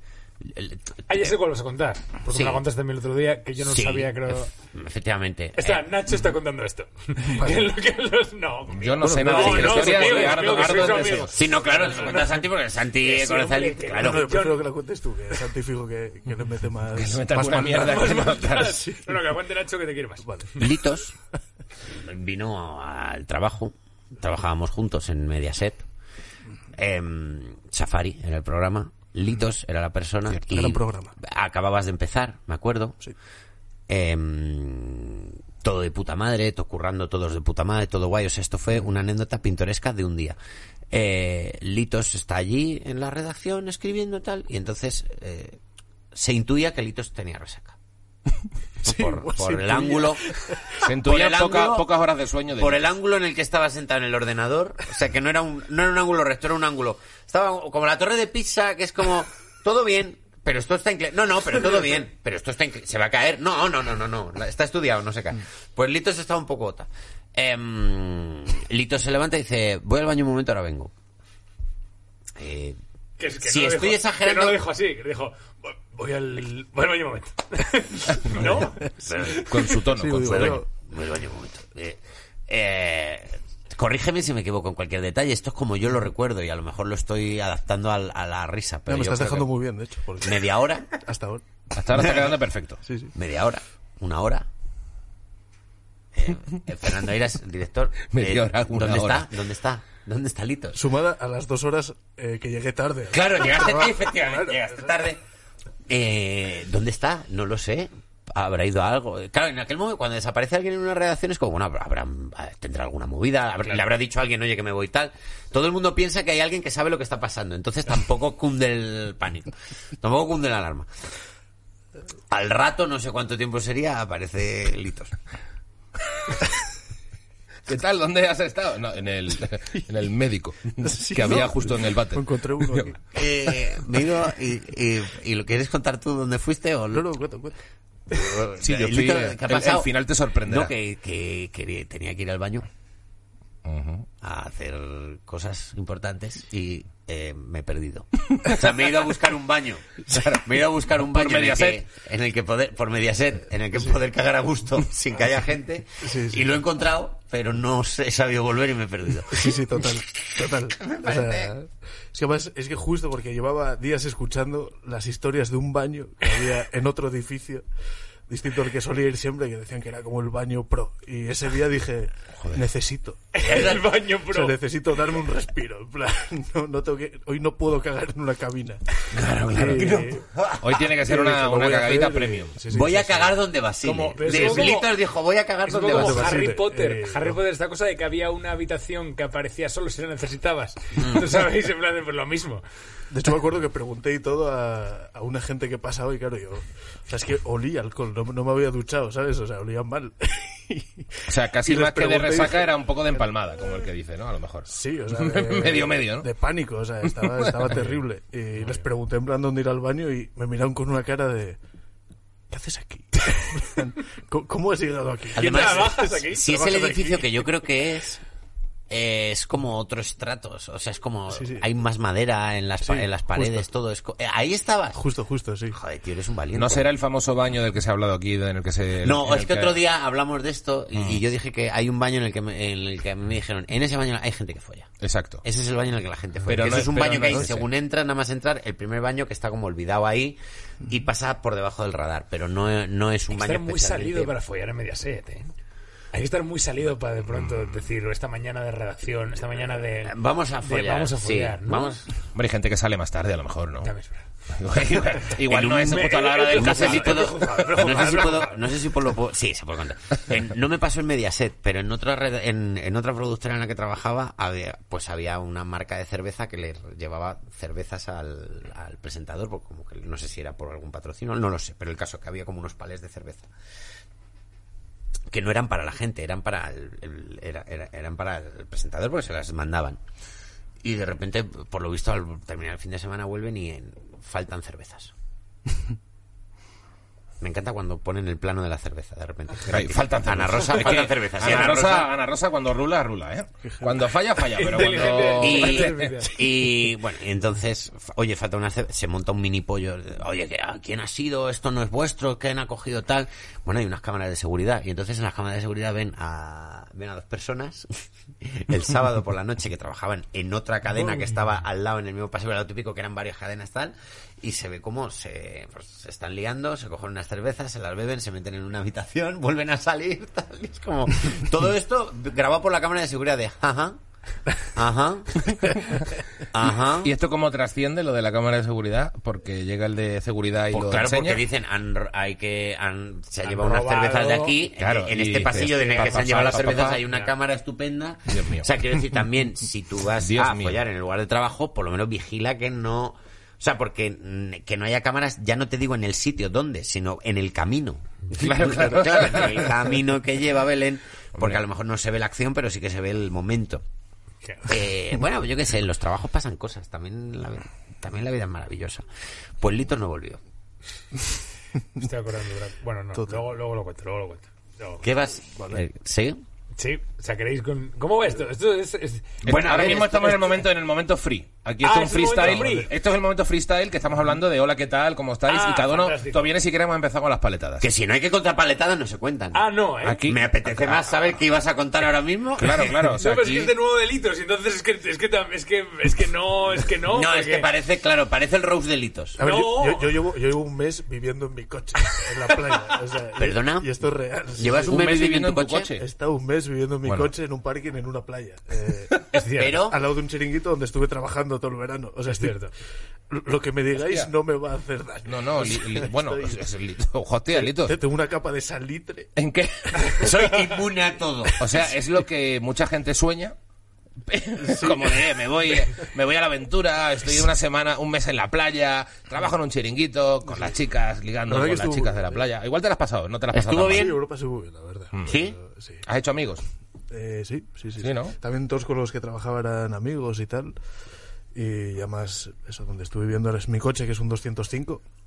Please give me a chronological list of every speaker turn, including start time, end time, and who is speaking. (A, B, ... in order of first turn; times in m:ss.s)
0:00.4-0:01.3 A
0:01.1-0:04.5 B
0:02.3-0:02.6 A
0:03.6-0:05.9 A
0:05.6-0:12.5 B
0:07.3-0:07.7 C
0:08.7-0:11.4 D
0:09.0-0:11.3 C
0:11.3-0:14.3 A
0:13.0-0:14.6 B
0:14.0-0:19.3 C
0:17.0-0:18.8 D
0:17.7-0:20.6 B
0:20.2-0:20.5 C
0:20.6-0:21.2 A
0:22.0-0:25.9 A
0:26.8-0:33.0 A
0:30.5-0:31.1 C
0:33.9-0:40.4 A
0:40.9-0:45.6 A
0:46.1-0:47.8 A
0:48.8-0:50.2 A
0:48.8-0:50.8 C
0:50.8-0:52.9 D
0:50.8-0:51.9 A
0:52.6-1:10.9 A
1:12.4-1:12.8 A
1:13.2-1:19.7 B
1:13.4-1:14.6 A
1:18.4-1:18.7 C
1:19.0-1:19.5 A
1:19.4-1:20.6 D
1:19.9-1:20.7 C
1:20.2-1:29.5 A
1:28.9-1:31.4 C
1:30.2-1:30.9 A
1:31.7-1:32.8 D
1:31.9-1:32.2 A
1:32.8-1:33.1 C
1:33.2-1:34.5 A
1:36.2-1:40.8 A
1:38.1-1:39.3 D
1:40.8-1:44.9 C
1:43.1-1:45.2 A
1:45.9-2:00.9 A
2:02.3-2:05.1 A
2:07.7-2:12.9 D
2:10.8-2:13.0 C
2:13.1-2:17.0 A
2:16.9-2:17.6 C
2:18.1-2:19.9 A
2:18.6-2:20.7 D
2:20.4-2:22.7 A
2:23.6-2:24.1 D
2:24.2-2:39.5 A
2:30.1-2:30.4 D
2:31.0-2:31.8 D
2:36.0-2:36.6 C
2:39.3-2:47.6 C
2:40.8-2:41.5 A
2:48.3-2:58.8 C
2:53.3-2:54.6 B
2:59.1-3:00.8 A
2:59.5-3:00.3 C
3:00.6-3:02.6 D
3:00.8-3:04.8 C
3:02.7-3:06.5 A
3:04.1-3:05.0 B
3:05.6-3:12.6 B
3:05.9-3:07.4 C
3:13.1-3:22.8 C
3:21.3-3:26.3 D
3:24.7-3:31.6 C
3:27.1-3:27.8 D
3:32.5-3:37.5 C
3:35.4-3:38.2 A
3:35.4-3:36.5 B
3:38.9-3:45.0 A
3:41.3-3:41.7 C
3:42.8-3:43.7 C
3:45.0-3:45.8 C
3:45.7-3:46.9 A
3:46.5-3:49.8 D
3:49.0-3:54.9 A
3:51.0-3:51.2 D
3:55.0-3:55.4 D
3:55.4-4:04.4 A
3:56.5-3:57.7 D
3:57.2-3:57.5 C
4:03.3-4:05.5 B
4:06.1-4:12.0 B
4:07.3-4:07.7 D
4:10.0-4:12.1 A
4:12.4-4:13.9 D
4:13.8-4:14.2 B
4:14.5-4:18.3 D
4:15.4-4:33.5 A
4:15.9-4:18.6 B
4:35.3-4:40.0 A
4:40.8-4:45.1 A
4:47.4-4:52.1 A
4:49.7-4:56.1 D
4:50.8-4:51.6 B
4:53.7-4:54.0 C
4:54.4-4:56.4 B
4:55.4-5:07.9 A
5:08.4-5:24.0 A
5:24.6-5:25.7 A
5:26.5-5:27.1 A
5:27.0-5:31.4 D
5:30.7-5:53.8 A
5:33.4-5:34.6 B
5:34.8-5:37.0 D
5:35.5-5:37.3 B
5:38.3-5:38.7 D
5:40.2-5:40.8 D
5:48.4-5:49.7 D
5:54.4-5:54.7 B
5:54.7-5:59.0 A
5:59.6-6:00.4 A
6:02.0-6:05.0 B
6:03.2-6:03.4 C
6:05.0-6:06.4 A
6:06.8-6:10.5 B
6:09.4-6:10.4 A
6:09.4-6:17.9 D
6:11.8-6:12.9 B
6:15.5-6:16.5 B
6:17.8-6:19.6 A
6:19.5-6:20.3 B
6:20.0-6:21.0 D
6:20.3-6:22.9 A
6:22.6-6:23.7 D
6:23.1-6:27.7 B
6:27.1-6:29.4 A
6:29.4-6:35.1 C
6:29.4-6:30.1 B
6:33.4-6:33.9 A
6:34.6-6:35.9 A
6:34.9-6:36.0 D
6:36.0-6:42.6 C
6:37.0-6:37.3 D
6:39.3-6:39.8 B
6:39.6-6:40.0 A
6:42.4-6:42.7 B
6:43.3-6:46.6 C
6:45.3-6:48.0 D
6:47.5-6:49.3 C
6:49.4-6:50.3 D
6:50.2-6:51.6 A
6:51.6-6:53.6 D
6:54.3-7:04.2 D
6:54.6-6:55.4 C
7:01.5-7:02.4 C
7:03.5-7:04.2 A
7:03.8-7:06.0 C
7:05.3-7:05.6 A
7:06.1-7:06.6 D
7:07.1-7:10.8 C
7:08.0-7:08.3 D
7:11.5-7:15.0 C